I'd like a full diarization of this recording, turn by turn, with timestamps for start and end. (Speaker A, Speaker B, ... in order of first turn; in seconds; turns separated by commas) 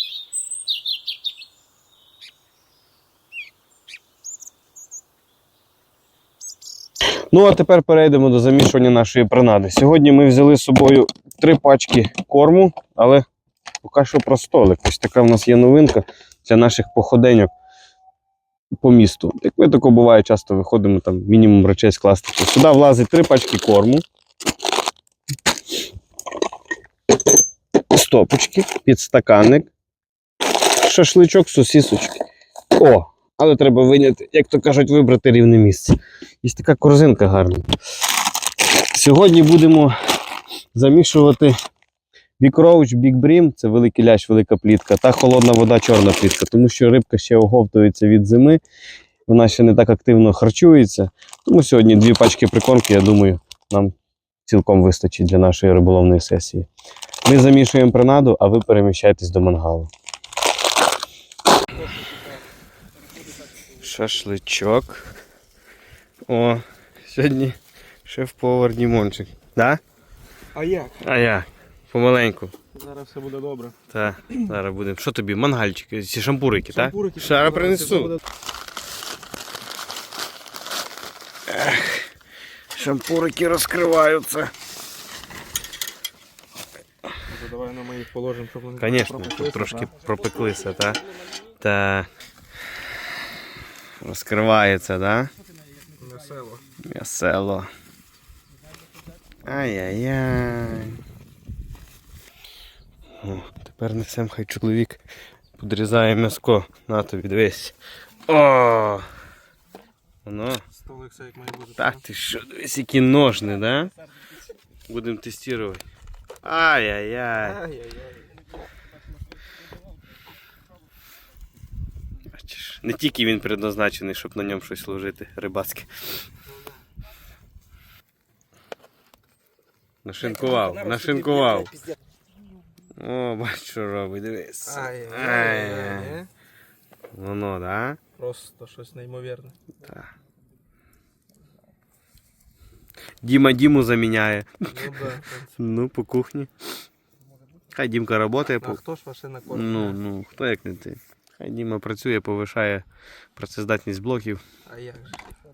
Speaker A: 7.3-13.2, Speaker A: 13.8-17.5, Speaker A: 18.8-24.0, Speaker A: 27.9-29.7, Speaker A: 30.6-32.2, Speaker A: 32.7-37.7, Speaker A: 38.9-39.9, Speaker A: 40.7-41.5, Speaker A: 42.4-48.6, Speaker A: 49.3-53.9, Speaker A: 54.5-56.7, Speaker A: 57.2-59.9, Speaker A: 63.8-65.1, Speaker A: 66.3-69.8, Speaker B: 70.6-71.0, Speaker A: 71.0-72.5, Speaker B: 72.7-73.7, Speaker A: 73.9-78.2, Speaker B: 76.9-78.1, Speaker A: 81.5-82.1, Speaker A: 82.7-84.5, Speaker B: 87.3-89.8, Speaker A: 88.8-91.1, Speaker A: 91.6-92.1, Speaker A: 94.0-95.3, Speaker B: 96.0-96.6, Speaker A: 96.8-97.7, Speaker A: 99.4-101.0, Speaker A: 103.2-105.0, Speaker A: 105.6-107.8, Speaker A: 108.3-109.1, Speaker A: 110.2-110.6, Speaker B: 110.8-112.0, Speaker A: 111.8-113.9, Speaker A: 114.9-115.8, Speaker A: 116.4-117.6, Speaker B: 117.4-118.3, Speaker A: 122.3-126.0, Speaker A: 130.0-131.8, Speaker A: 133.0-136.2, Speaker B: 134.7-136.3, Speaker A: 137.1-138.0, Speaker B: 138.2-139.6, Speaker A: 139.8-140.1, Speaker A: 143.2-144.9, Speaker B: 144.7-145.5, Speaker A: 145.5-146.5, Speaker A: 147.7-148.8, Speaker B: 148.6-149.9, Speaker A: 149.4-152.8, Speaker A: 153.3-154.4, Speaker B: 154.7-155.2